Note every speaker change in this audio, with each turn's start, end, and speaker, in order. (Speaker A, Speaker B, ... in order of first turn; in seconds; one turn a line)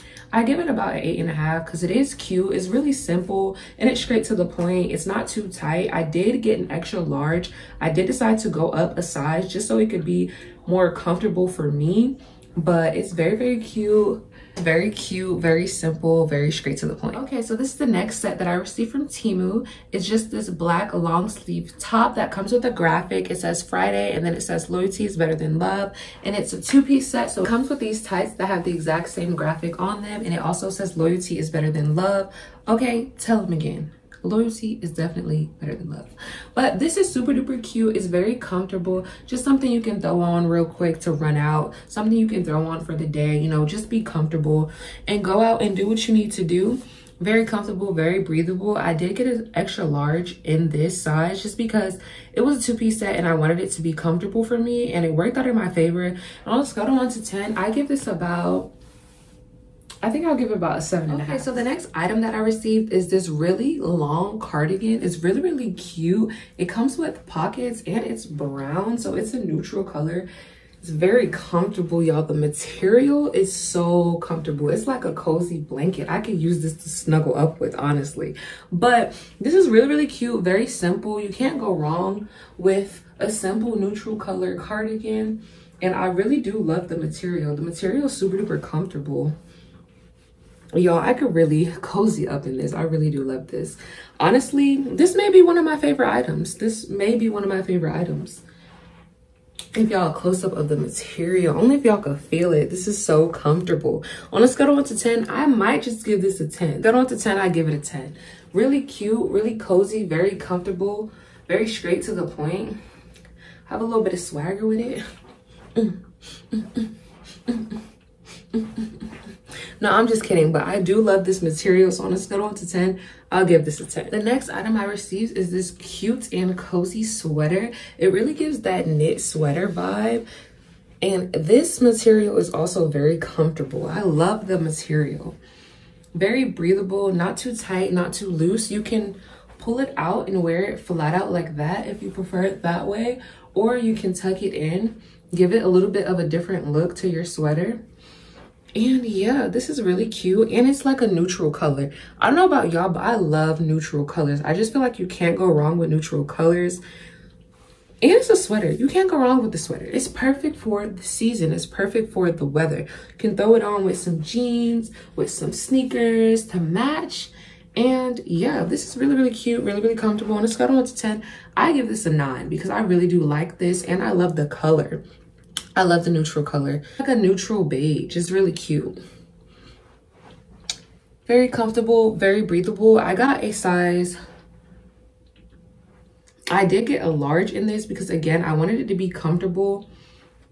Speaker A: 0.3-58.7
Speaker A: 60.0-70.3
Speaker A: 70.8-89.3
Speaker A: 90.7-98.4
Speaker A: 99.8-112.8
Speaker A: 113.7-115.0
Speaker A: 115.8-116.0
Speaker A: 116.5-116.9
Speaker A: 117.5-117.8
Speaker A: 118.5-119.2
Speaker A: 119.8-130.3
Speaker A: 131.0-135.4
Speaker A: 136.1-147.8
Speaker A: 148.8-156.8
Speaker A: 158.0-175.0
Speaker A: 175.8-179.0
Speaker A: 181.3-184.2
Speaker A: 186.5-189.9